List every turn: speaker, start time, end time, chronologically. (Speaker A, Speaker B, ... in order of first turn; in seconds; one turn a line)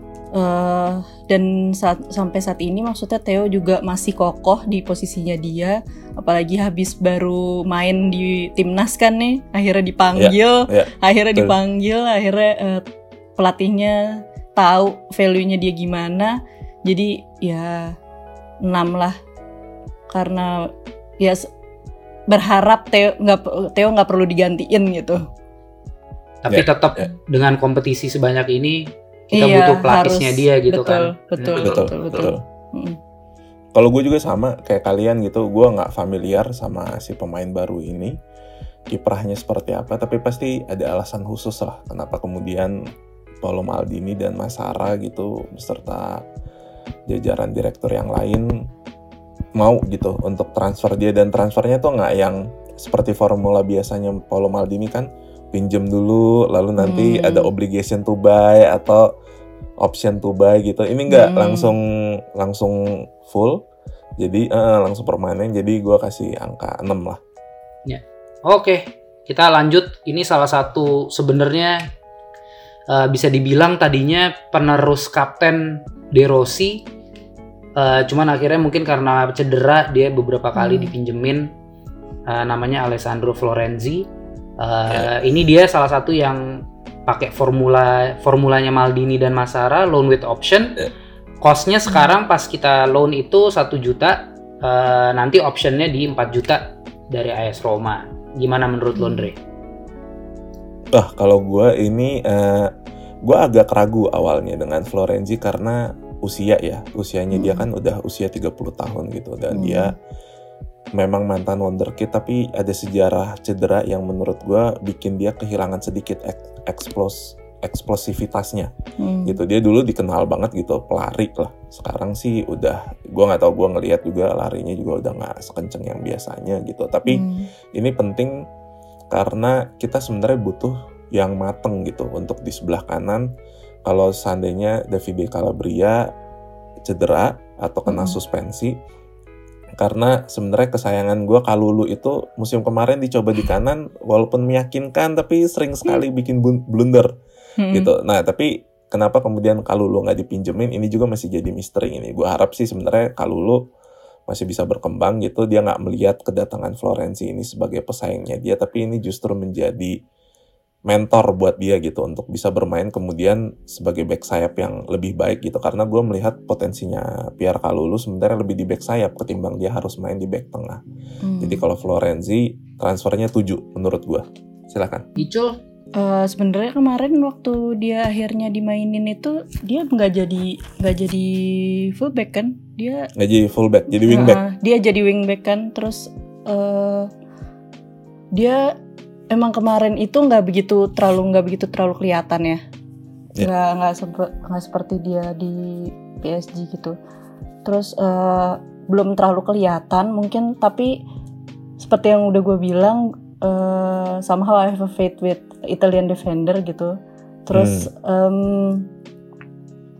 Speaker A: 0.3-17.9
Speaker B: 10.1-11.5
Speaker A: 18.6-19.1
Speaker A: 20.1-21.5
Speaker A: 22.3-25.2
Speaker C: 26.4-31.6
Speaker A: 29.3-33.0
Speaker B: 31.6-32.4
Speaker B: 33.8-38.1
Speaker B: 38.9-42.8
Speaker B: 43.4-46.2
Speaker B: 47.1-48.5
Speaker B: 49.6-59.1
Speaker A: 56.8-57.5
Speaker B: 59.8-63.6
Speaker A: 61.1-61.7
Speaker B: 64.2-67.2
Speaker C: 67.8-71.8
Speaker C: 72.9-76.8
Speaker C: 77.8-81.5
Speaker A: 80.5-80.9
Speaker C: 82.3-84.0
Speaker C: 84.6-86.5
Speaker C: 87.1-90.8
Speaker C: 91.4-99.4
Speaker A: 98.9-99.3
Speaker B: 100.9-102.7
Speaker B: 103.2-109.9
Speaker A: 107.3-107.7
Speaker A: 109.5-109.9
Speaker B: 111.0-118.7
Speaker A: 119.0-119.4
Speaker B: 119.2-128.3
Speaker A: 127.1-127.5
Speaker B: 129.1-133.3
Speaker B: 133.8-136.1
Speaker B: 136.8-138.8
Speaker A: 137.9-138.2
Speaker B: 139.8-147.1
Speaker A: 147.6-147.9
Speaker B: 147.7-153.6
Speaker B: 154.3-159.9
Speaker B: 160.9-170.8
Speaker A: 171.2-171.6
Speaker B: 171.4-175.1
Speaker C: 175.2-175.6
Speaker A: 175.9-183.1
Speaker B: 183.2-184.4
Speaker A: 184.0-187.1
Speaker A: 188.3-188.7
Speaker A: 189.3-192.6
Speaker A: 193.4-196.9
Speaker A: 197.6-200.9
Speaker A: 201.8-206.9
Speaker A: 207.4-208.9
Speaker B: 207.5-207.9